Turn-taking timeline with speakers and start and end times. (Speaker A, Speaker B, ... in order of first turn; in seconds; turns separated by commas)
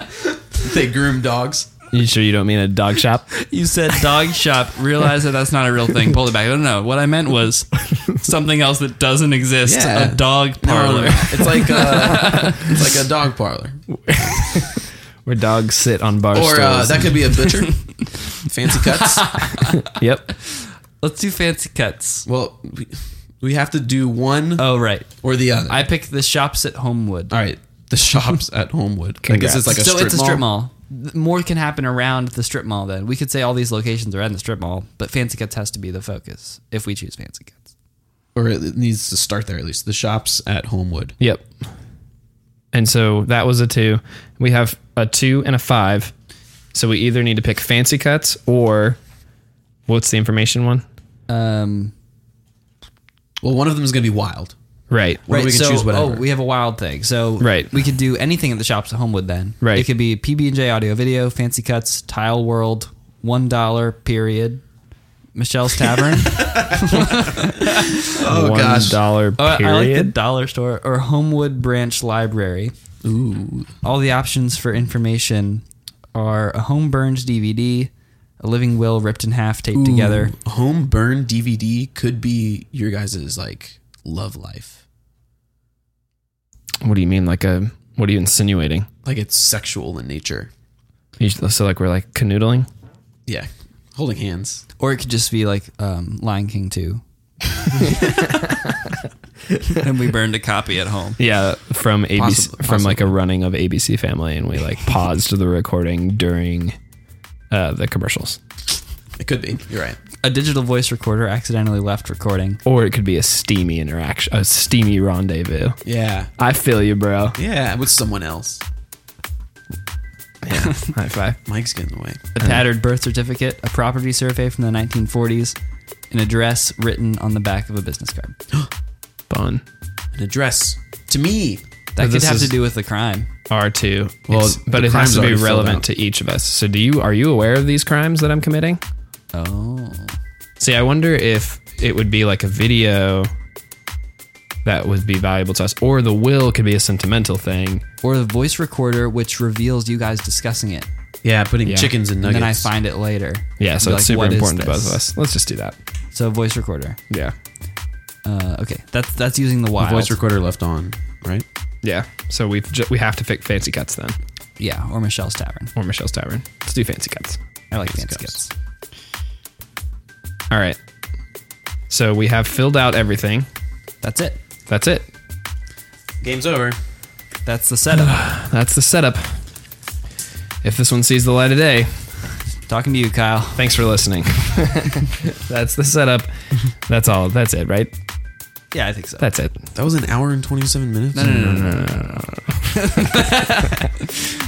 Speaker A: 0.5-1.7, Speaker B: 1.9-3.4, Speaker C: 3.4-12.8, Speaker A: 9.6-14.7, Speaker B: 14.1-17.2, Speaker A: 16.3-19.5, Speaker C: 17.6-18.1, Speaker C: 18.7-22.2, Speaker B: 19.8-20.3, Speaker A: 22.2-24.6, Speaker C: 24.6-25.1, Speaker A: 25.2-25.9, Speaker C: 25.7-27.4, Speaker A: 27.3-30.4, Speaker B: 29.2-29.7, Speaker C: 29.5-37.7, Speaker A: 38.3-41.1, Speaker B: 41.2-41.5, Speaker B: 42.7-46.1, Speaker B: 46.7-49.0, Speaker B: 49.9-50.8, Speaker C: 51.3-51.9, Speaker A: 53.4-54.5, Speaker B: 54.9-55.2, Speaker A: 55.2-56.2, Speaker C: 55.3-64.6, Speaker B: 57.4-57.7, Speaker B: 59.6-59.9, Speaker C: 65.3-68.0, Speaker A: 67.6-69.0, Speaker B: 68.2-70.1, Speaker C: 69.3-72.7, Speaker A: 73.0-73.7, Speaker C: 73.8-80.3, Speaker A: 79.7-84.8, Speaker B: 86.8-88.9, Speaker A: 89.0-90.5, Speaker B: 91.2-92.7, Speaker A: 93.2-94.6, Speaker C: 94.8-97.0, Speaker B: 97.9-98.7, Speaker C: 99.7-101.2, Speaker B: 101.2-106.8, Speaker A: 102.2-103.1, Speaker B: 107.5-108.4, Speaker A: 109.2-110.0, Speaker C: 110.2-112.6, Speaker B: 112.6-115.8, Speaker A: 115.8-116.3, Speaker B: 116.4-117.4, Speaker A: 117.3-118.6, Speaker B: 120.4-121.4, Speaker A: 121.5-122.2, Speaker C: 122.3-125.6, Speaker B: 122.4-122.6, Speaker C: 126.1-128.3, Speaker B: 129.3-129.6, Speaker A: 130.1-131.6, Speaker C: 131.9-133.3, Speaker B: 132.0-132.5, Speaker B: 133.5-138.8, Speaker A: 134.3-135.8, Speaker C: 139.3-140.2, Speaker B: 140.6-143.3, Speaker B: 144.6-147.8, Speaker C: 148.0-150.9, Speaker A: 151.2-152.7, Speaker B: 151.7-151.9, Speaker C: 152.2-155.0, Speaker B: 153.6-155.8, Speaker C: 156.1-157.0, Speaker B: 157.1-157.3, Speaker C: 158.2-160.2, Speaker A: 159.8-161.4, Speaker B: 161.8-164.2, Speaker C: 164.6-165.7, Speaker B: 165.8-167.4, Speaker C: 167.7-168.5, Speaker A: 167.8-168.4, Speaker B: 170.5-170.8, Speaker B: 171.9-173.5, Speaker C: 174.0-174.4, Speaker B: 174.7-175.1, Speaker A: 176.2-176.8, Speaker C: 177.4-178.2, Speaker B: 177.9-179.4, Speaker B: 180.6-182.1, Speaker C: 182.7-183.7, Speaker B: 183.6-187.9, Speaker C: 188.7-189.3, Speaker B: 189.2-189.6, Speaker A: 189.7-191.7, Speaker C: 191.1-194.3, Speaker B: 191.2-193.3